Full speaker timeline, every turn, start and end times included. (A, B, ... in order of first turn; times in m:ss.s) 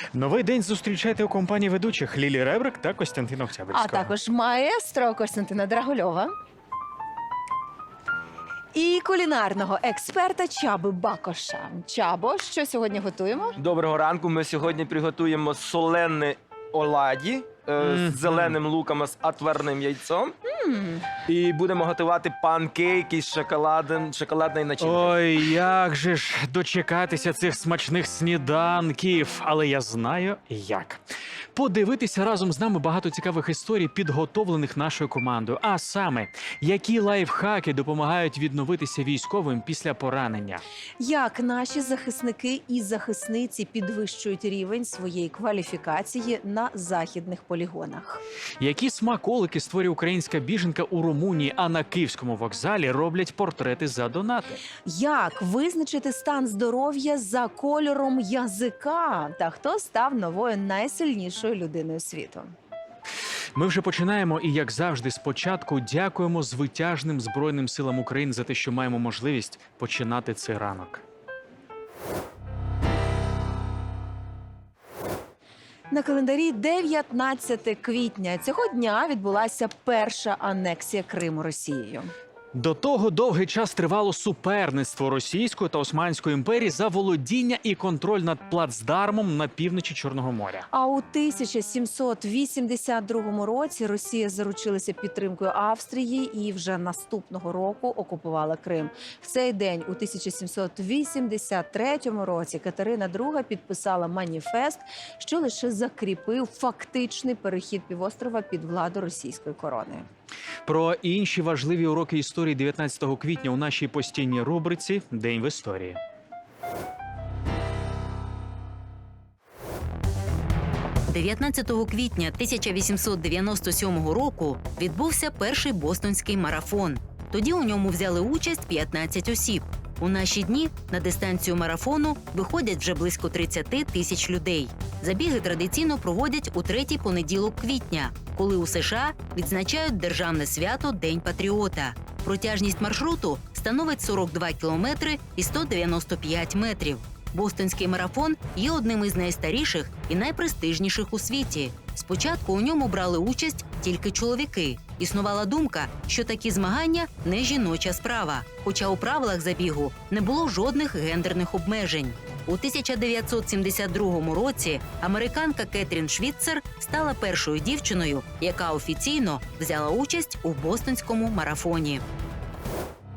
0:00.1-0:04.1 A
0:03.7-0:06.3 B
0:08.7-0:13.6 B
0:13.6-0:20.3 C
0:17.8-0:18.6 A
0:20.4-0:21.1 B
0:21.3-0:25.2 C
0:24.8-0:31.0 A
0:31.6-0:40.6 A
0:41.0-0:48.2 B
0:48.6-0:54.6 A
0:54.9-1:02.5 B
1:03.6-1:11.0 A
1:15.9-1:22.1 B
1:22.6-1:30.7 A
1:30.7-1:50.1 B
1:50.6-1:56.0 A
2:01.1-2:52.0 D